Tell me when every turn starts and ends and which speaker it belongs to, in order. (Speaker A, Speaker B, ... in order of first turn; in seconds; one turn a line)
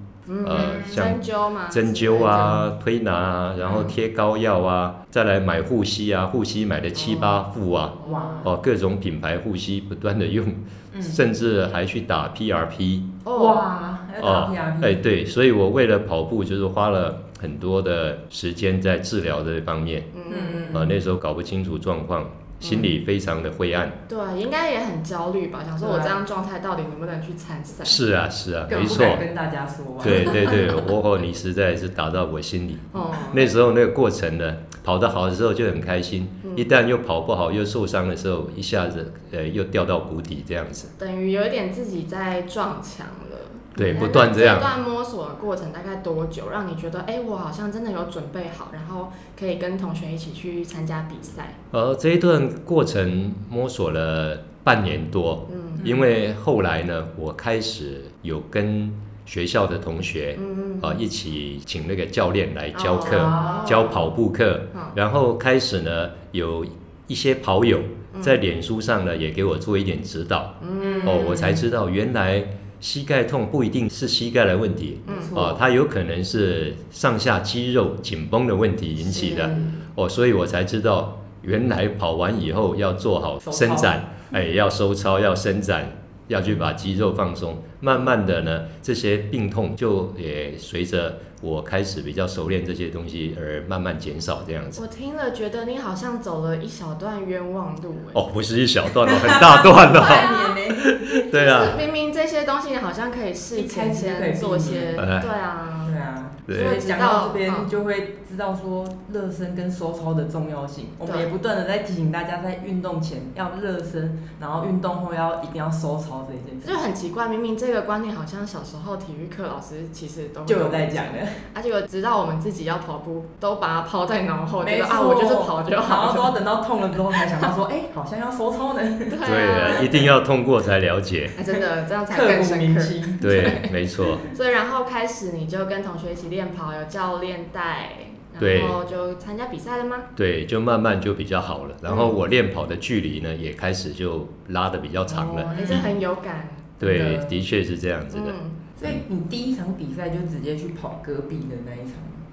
Speaker A: 0.3-2.6
Speaker B: 0.4-13.2
Speaker C: 0.5-0.9
Speaker C: 3.6-4.0
Speaker A: 6.9-7.4
Speaker A: 8.0-8.5
Speaker C: 8.0-8.5
Speaker C: 10.9-11.2
Speaker A: 13.2-13.7
Speaker C: 13.3-15.0
Speaker B: 14.2-20.1
Speaker A: 20.1-20.9
Speaker C: 20.3-21.0
Speaker B: 20.7-24.0
Speaker A: 22.6-22.9
Speaker A: 24.1-28.0
Speaker C: 25.8-26.1
Speaker B: 27.8-29.2
Speaker C: 28.7-30.8
Speaker B: 30.0-40.9
Speaker A: 30.1-30.8
Speaker A: 32.9-33.5
Speaker A: 36.4-36.7
Speaker A: 41.0-51.6
Speaker B: 43.8-44.7
Speaker B: 51.7-94.8
Speaker A: 55.5-55.9
Speaker C: 55.8-56.1
Speaker A: 60.4-61.0
Speaker A: 62.7-64.0
Speaker C: 63.0-63.9
Speaker A: 68.1-68.4
Speaker A: 70.6-71.6
Speaker C: 70.8-71.6
Speaker A: 75.0-75.3
Speaker C: 75.1-75.7
Speaker C: 79.2-79.8
Speaker A: 79.2-79.5
Speaker C: 83.4-84.0
Speaker A: 94.8-98.2
Speaker B: 98.1-101.8
Speaker C: 99.0-100.9
Speaker A: 99.9-100.5
Speaker A: 101.3-106.0
Speaker C: 103.5-105.0
Speaker B: 105.0-105.3
Speaker C: 105.8-116.9
Speaker B: 106.5-106.8
Speaker A: 106.5-107.7
Speaker A: 111.0-111.3
Speaker A: 116.6-126.4
Speaker C: 120.5-121.4
Speaker C: 124.6-130.0
Speaker A: 129.1-129.9
Speaker B: 129.2-131.4
Speaker A: 131.4-140.1
Speaker C: 132.1-133.3
Speaker B: 133.2-134.2
Speaker B: 138.4-138.8
Speaker B: 140.2-145.9
Speaker A: 141.9-142.2
Speaker A: 145.1-146.7
Speaker C: 145.5-145.9
Speaker C: 146.8-147.4
Speaker B: 146.8-149.0
Speaker A: 148.1-148.7
Speaker C: 148.8-152.2